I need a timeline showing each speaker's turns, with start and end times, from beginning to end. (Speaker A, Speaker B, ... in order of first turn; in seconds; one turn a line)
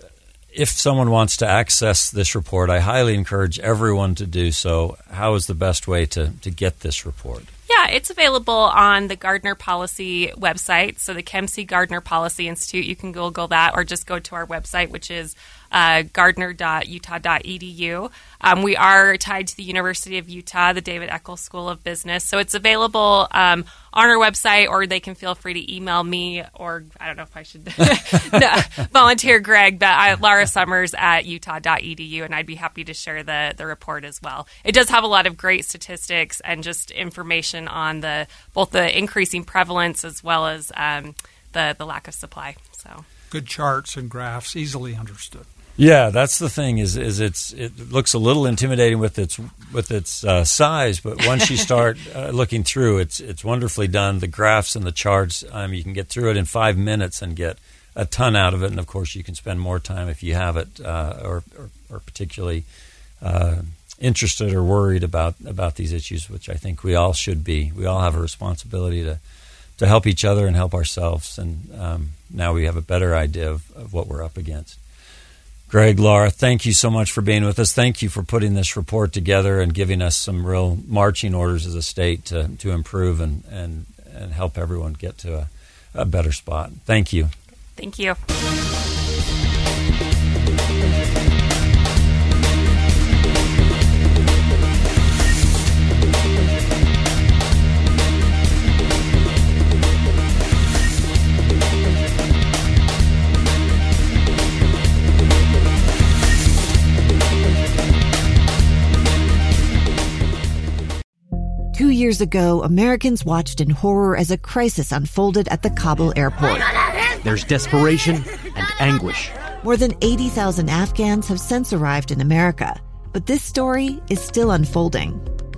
Speaker A: 0.5-7.5
Speaker B: 7.7-43.0
Speaker C: 43.3-45.5
Speaker A: 45.8-62.6
Speaker A: 63.2-69.2
Speaker A: 69.8-74.8
Speaker A: 75.7-87.3
Speaker B: 87.8-88.2
Speaker D: 111.7-116.7
Speaker E: 117.2-119.3
Speaker D: 119.6-125.2